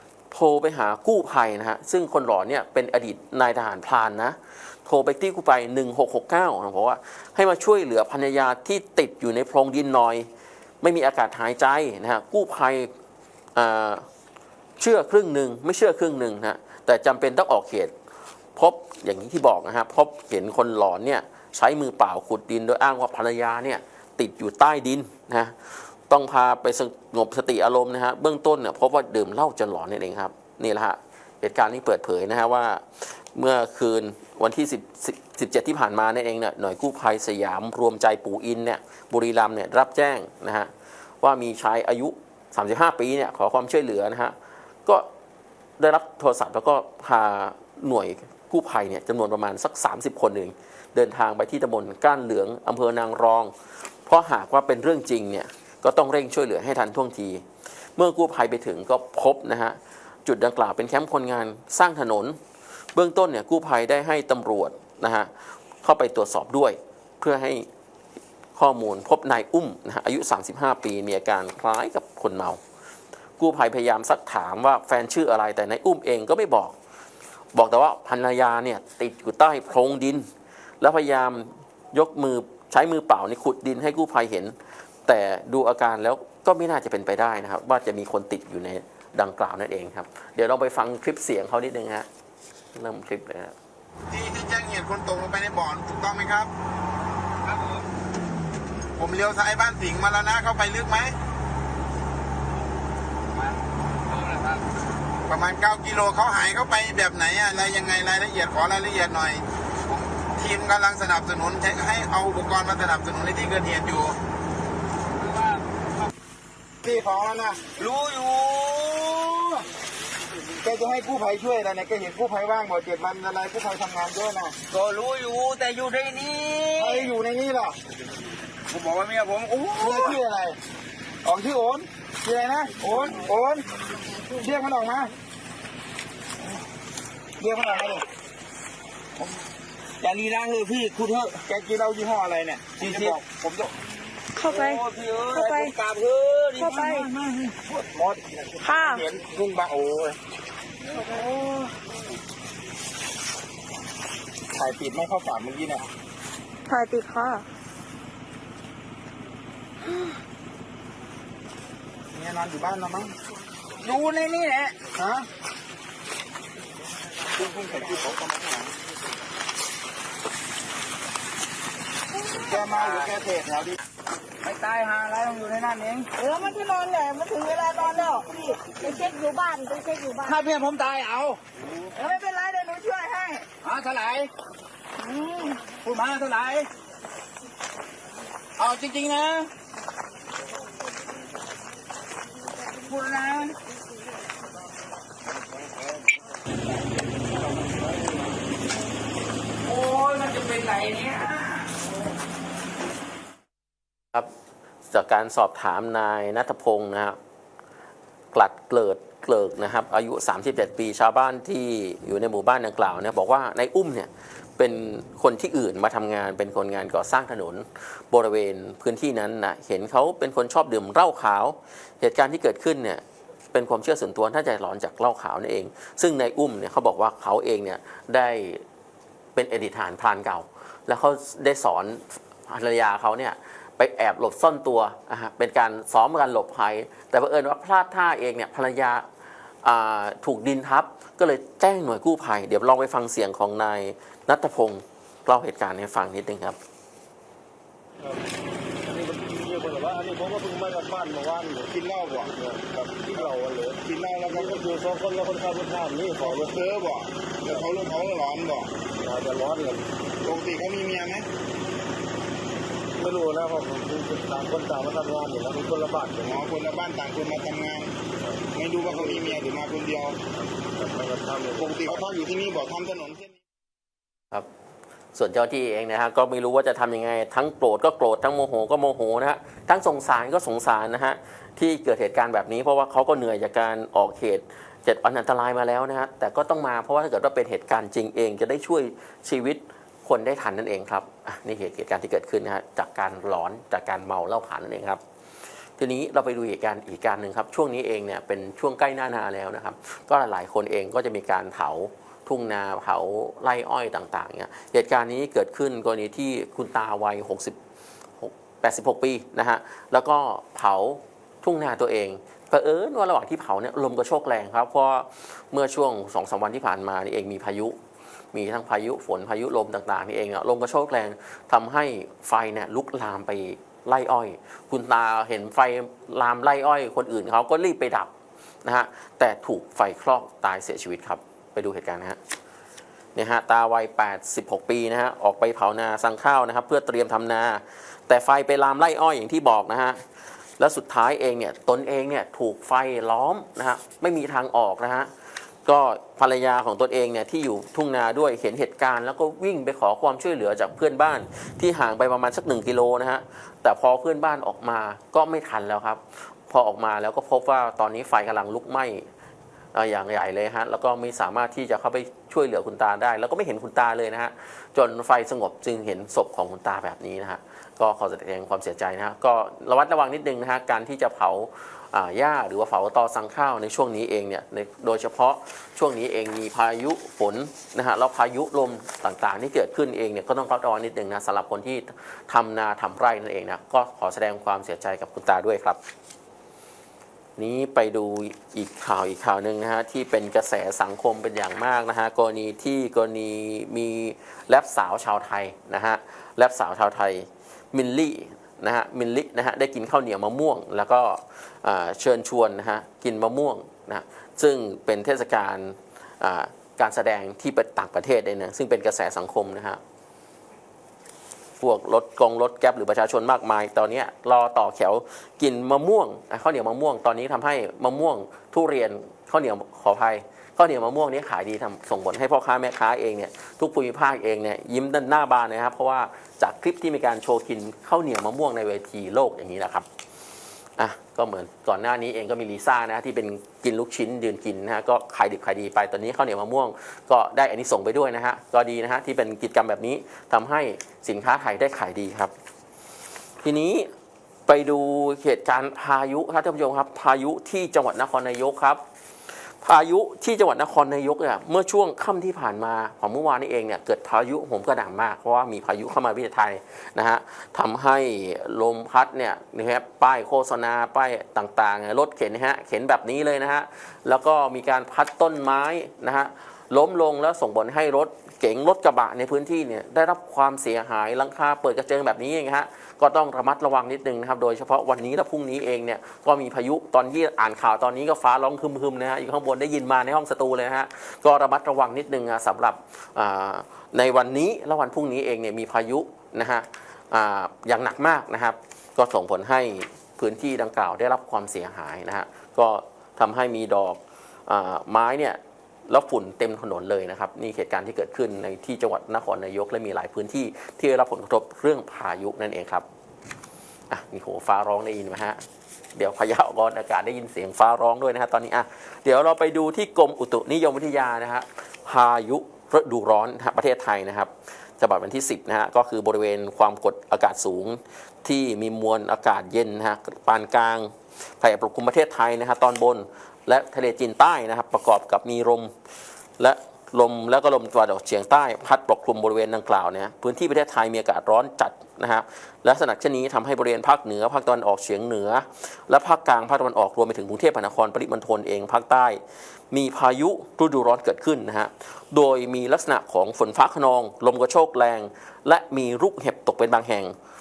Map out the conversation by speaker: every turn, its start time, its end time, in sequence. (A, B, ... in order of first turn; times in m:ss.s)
0:00.3-0:10.3 A
0:10.8-0:12.9 A
0:13.6-0:14.0 A
0:14.8-0:17.9 A
0:18.6-0:40.7 A
0:41.2-0:44.3 A
0:45.8-0:53.5 A
0:54.0-0:57.4 A
0:58.0-1:02.4 A
1:02.9-1:05.3 A
1:05.8-1:07.7 A
1:08.6-1:12.6 A
1:13.4-1:16.7 A
1:17.5-1:20.2 A
1:20.8-1:24.5 A
1:25.0-1:32.1 A
1:32.7-1:33.6 A
1:34.1-1:36.5 B
1:37.5-1:37.8 C
1:39.0-1:41.2 B
1:44.1-1:44.6 C
1:45.3-1:54.2 B
1:55.2-1:55.8 C
1:56.8-1:57.7 B
1:57.8-1:59.6 C
2:00.6-2:04.6 B
2:04.7-2:07.1 C
2:06.8-2:07.8 B
2:08.7-2:10.2 C
2:09.7-2:10.6 B
2:11.2-2:13.6 B
2:12.8-2:13.3 C
2:14.3-2:15.1 B
2:17.4-2:18.0 B
2:20.0-2:21.5 C
2:21.5-2:23.6 B
2:22.8-2:23.2 C
2:24.4-2:25.7 D
2:24.4-2:27.5 C
2:26.6-2:27.1 D
2:27.7-2:30.2 B
2:28.6-2:29.0 D
2:30.9-2:31.7 D
2:34.5-2:35.9 B
2:36.7-2:37.5 D
2:39.9-2:40.2 D
2:42.1-2:43.2 B
2:43.8-2:44.8 C
2:44.9-2:45.3 B
2:47.4-2:48.1 C
2:47.4-2:48.5 B
2:52.4-2:53.8 B
2:52.5-2:53.1 C
2:54.4-2:56.1 C
2:56.2-3:00.4 D
3:00.2-3:01.4 C
3:02.0-3:03.5 D
3:03.6-3:04.3 C
3:05.0-3:05.6 D
3:05.6-3:06.7 C
3:08.6-3:09.5 C
3:12.9-3:13.5 C
3:19.7-3:21.4 C
3:24.9-3:27.2 A
3:28.3-3:48.6 A
3:49.3-3:59.0 A
3:59.6-4:06.6 A
4:08.8-4:11.7 E
4:11.7-4:12.3 B
4:12.2-4:16.5 E
4:13.0-4:13.3 B
4:13.8-4:14.6 B
4:16.2-4:18.7 B
4:19.0-4:19.9 E
4:20.2-4:21.3 B
4:23.0-4:26.4 E
4:26.2-4:27.9 B
4:28.3-4:29.4 E
4:28.5-4:30.2 B
4:30.4-4:32.0 E
4:31.6-4:33.4 B
4:35.1-4:55.0 A
4:55.8-5:07.6 A
5:08.2-5:17.8 A
5:18.3-5:28.1 A
5:28.6-5:32.2 A
5:33.1-5:40.0 A
5:40.6-5:45.1 A
5:45.6-5:59.1 A
5:59.7-6:25.8 A
6:27.4-6:49.8 A
6:51.6-7:09.9 A
7:10.8-7:22.3 A
7:23.4-7:23.9 A
7:24.5-7:28.8 A
7:29.5-8:22.8 A
8:23.9-8:25.4 A
8:25.9-8:45.7 A
8:46.4-9:07.1 A